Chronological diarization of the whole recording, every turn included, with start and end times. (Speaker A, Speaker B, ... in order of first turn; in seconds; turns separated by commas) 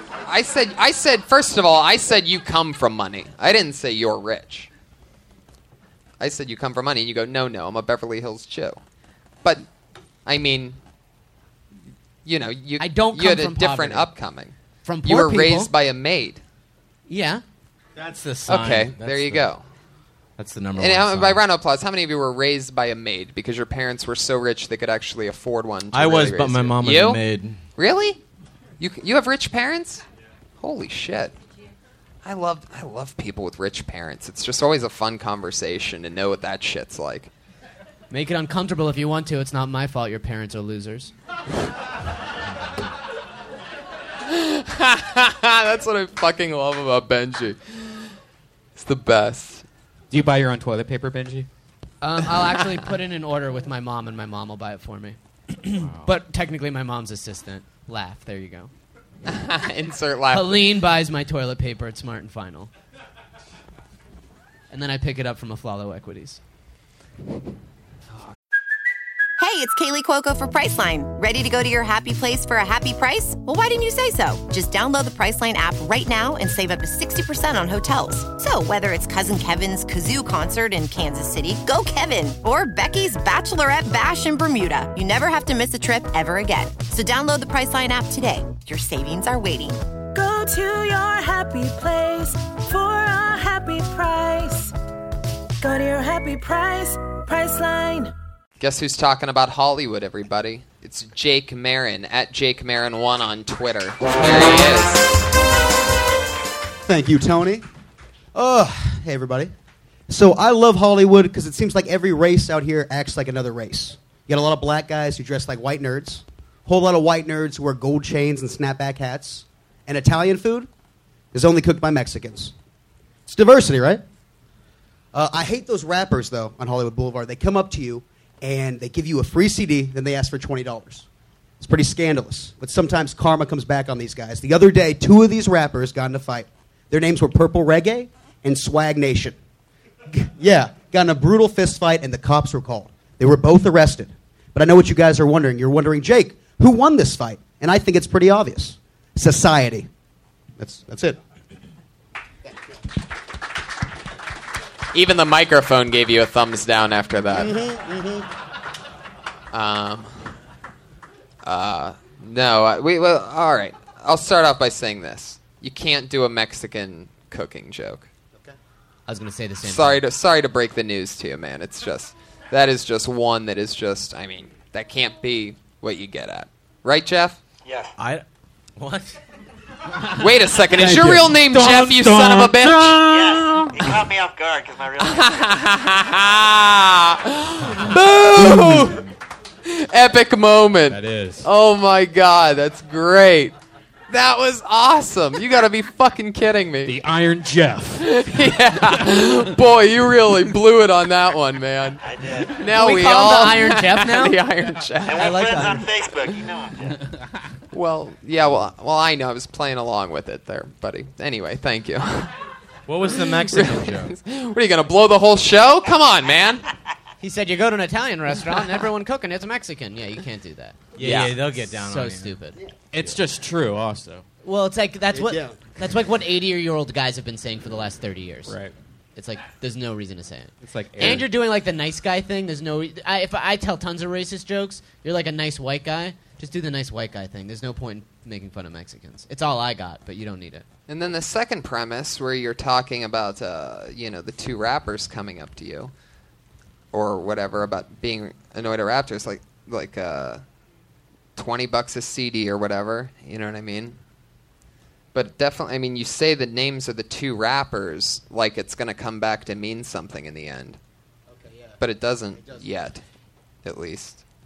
Speaker A: 0.3-4.7, Speaker A: 6.2-8.8, Speaker A: 10.3-10.8, Speaker A: 12.2-16.4, Speaker B: 12.8-14.1, Speaker B: 14.8-15.7, Speaker B: 17.1-17.4, Speaker C: 18.0-19.5, Speaker A: 18.5-19.6, Speaker C: 20.4-21.4, Speaker A: 20.8-27.2, Speaker C: 25.9-27.6, Speaker A: 27.8-28.2, Speaker A: 28.8-30.0, Speaker A: 30.6-31.4, Speaker A: 32.2-37.3, Speaker B: 38.1-41.1, Speaker A: 44.2-48.1, Speaker A: 48.8-49.7, Speaker D: 50.1-51.5, Speaker B: 52.0-58.7, Speaker D: 55.8-56.1, Speaker A: 59.3-60.7, Speaker B: 60.3-62.7, Speaker B: 64.7-66.4, Speaker E: 69.4-89.8, Speaker F: 90.1-94.7, Speaker F: 95.6-98.1, Speaker A: 98.6-105.1, Speaker G: 106.8-107.6, Speaker G: 108.3-109.5, Speaker G: 110.1-120.7, Speaker G: 121.3-122.5, Speaker G: 123.3-124.0, Speaker G: 125.1-131.1, Speaker G: 131.6-139.3, Speaker G: 140.1-149.9, Speaker G: 150.6-151.2, Speaker A: 154.9-157.5, Speaker G: 157.3-158.3, Speaker A: 159.5-160.1, Speaker A: 161.4-168.1, Speaker B: 169.1-170.0, Speaker A: 169.6-177.4, Speaker H: 177.7-177.9, Speaker C: 178.0-178.2, Speaker C: 178.8-179.1, Speaker A: 180.2-183.0, Speaker D: 180.7-183.9, Speaker H: 183.1-185.3, Speaker A: 185.0-189.0, Speaker D: 188.4-189.0, Speaker A: 189.7-193.6, Speaker D: 190.9-191.5, Speaker A: 194.1-197.0, Speaker D: 196.8-198.2, Speaker A: 198.0-205.6, Speaker H: 202.0-202.5, Speaker B: 202.7-204.4, Speaker H: 205.0-207.0, Speaker B: 205.1-205.9, Speaker A: 207.7-212.3, Speaker C: 212.9-214.1, Speaker A: 213.4-216.7, Speaker B: 217.2-220.8, Speaker C: 220.9-222.4, Speaker A: 221.0-221.4, Speaker B: 221.5-222.6, Speaker D: 222.9-224.2, Speaker B: 224.4-228.5, Speaker G: 225.1-225.6, Speaker D: 228.5-228.7, Speaker B: 229.2-240.6, Speaker D: 230.6-231.3, Speaker A: 240.9-245.9, Speaker A: 246.9-250.4, Speaker A: 251.4-254.0, Speaker A: 255.1-260.8, Speaker G: 261.3-261.8, Speaker A: 261.8-263.0, Speaker A: 263.6-264.2